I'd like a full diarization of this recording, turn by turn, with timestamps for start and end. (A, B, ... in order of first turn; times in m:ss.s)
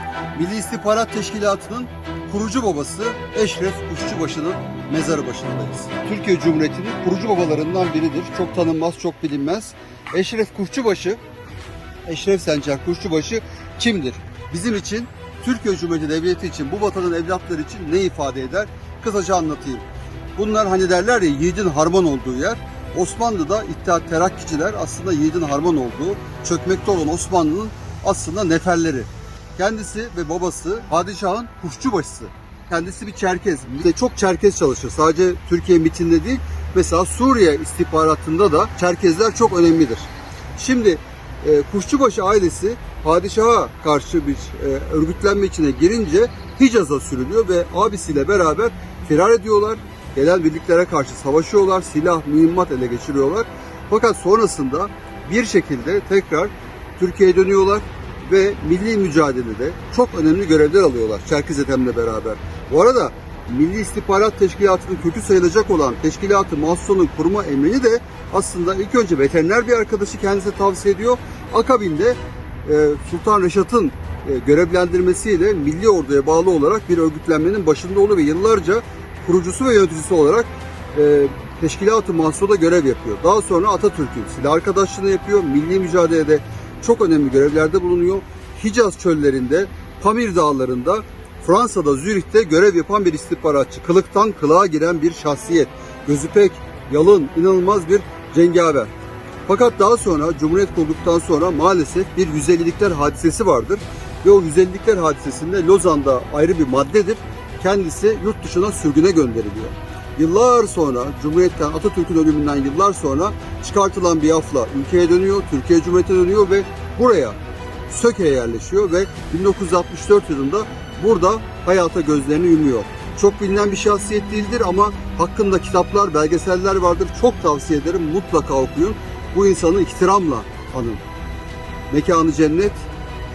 0:00.4-0:11.2 A
0:12.1-1:38.9 A
1:39.5-2:11.0 A
2:11.9-2:12.9 A